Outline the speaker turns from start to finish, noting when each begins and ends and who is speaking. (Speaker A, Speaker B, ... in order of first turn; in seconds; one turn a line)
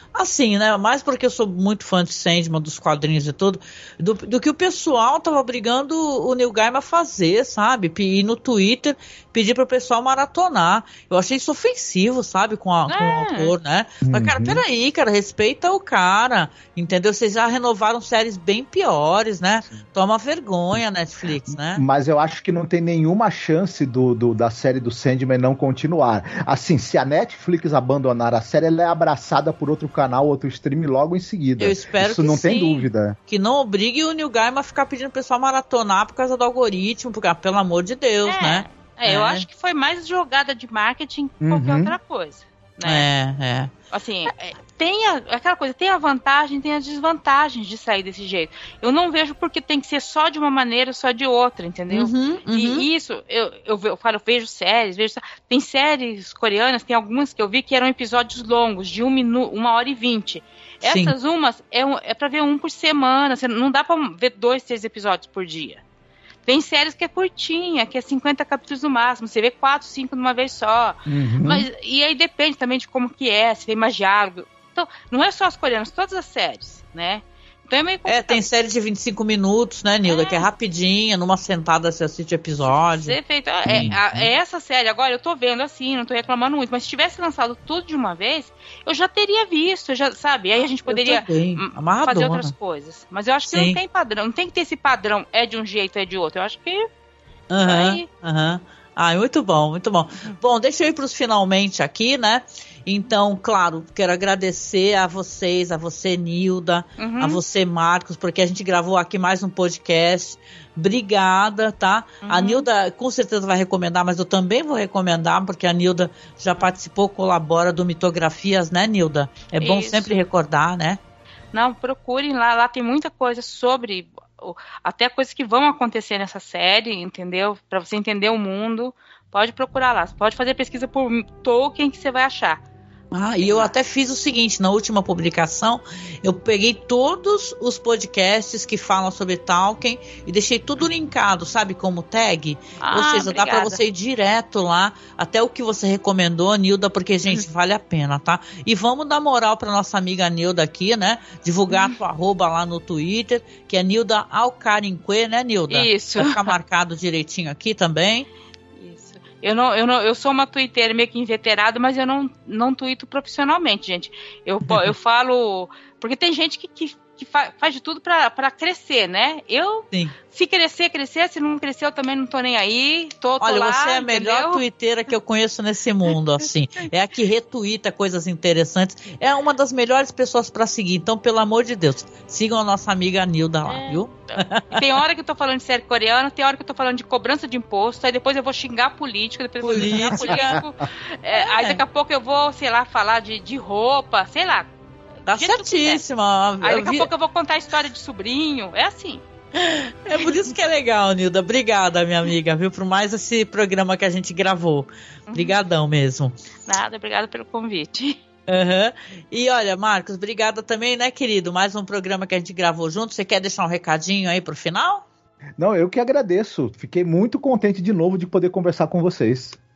Speaker A: 0.1-21.8
Speaker B: 12.9-13.6
Speaker C: 14.1-14.6
Speaker C: 21.7-33.2
Speaker A: 31.6-39.5
Speaker B: 38.2-43.1
Speaker C: 41.4-42.0
Speaker A: 42.9-43.7
Speaker B: 43.9-65.8
Speaker A: 51.9-52.9
Speaker A: 60.8-61.1
Speaker B: 66.5-78.4
Speaker C: 71.1-71.7
Speaker A: 78.1-83.2
Speaker B: 80.0-80.5
Speaker B: 82.6-96.9
Speaker C: 83.7-84.3
Speaker A: 83.7-84.0
Speaker A: 90.9-92.5
Speaker A: 93.5-93.8
Speaker A: 97.5-121.0
Speaker B: 97.6-98.1
Speaker B: 107.0-107.4
Speaker B: 112.2-112.7
Speaker B: 119.6-120.2
Speaker B: 121.5-132.6
Speaker A: 133.1-158.3
Speaker B: 133.4-133.7
Speaker B: 142.8-143.8
Speaker B: 151.7-152.0
Speaker B: 155.7-156.6
Speaker B: 158.8-174.6
Speaker A: 173.4-184.8
Speaker B: 183.7-194.7
Speaker A: 189.6-190.6
Speaker C: 189.8-190.6
Speaker A: 191.3-191.8
Speaker B: 195.3-196.0
Speaker A: 195.3-197.1
Speaker B: 196.6-199.2
Speaker A: 199.6-206.3
Speaker B: 205.3-205.6
Speaker B: 206.7-208.2
Speaker A: 208.5-215.1
Speaker C: 215.6-219.6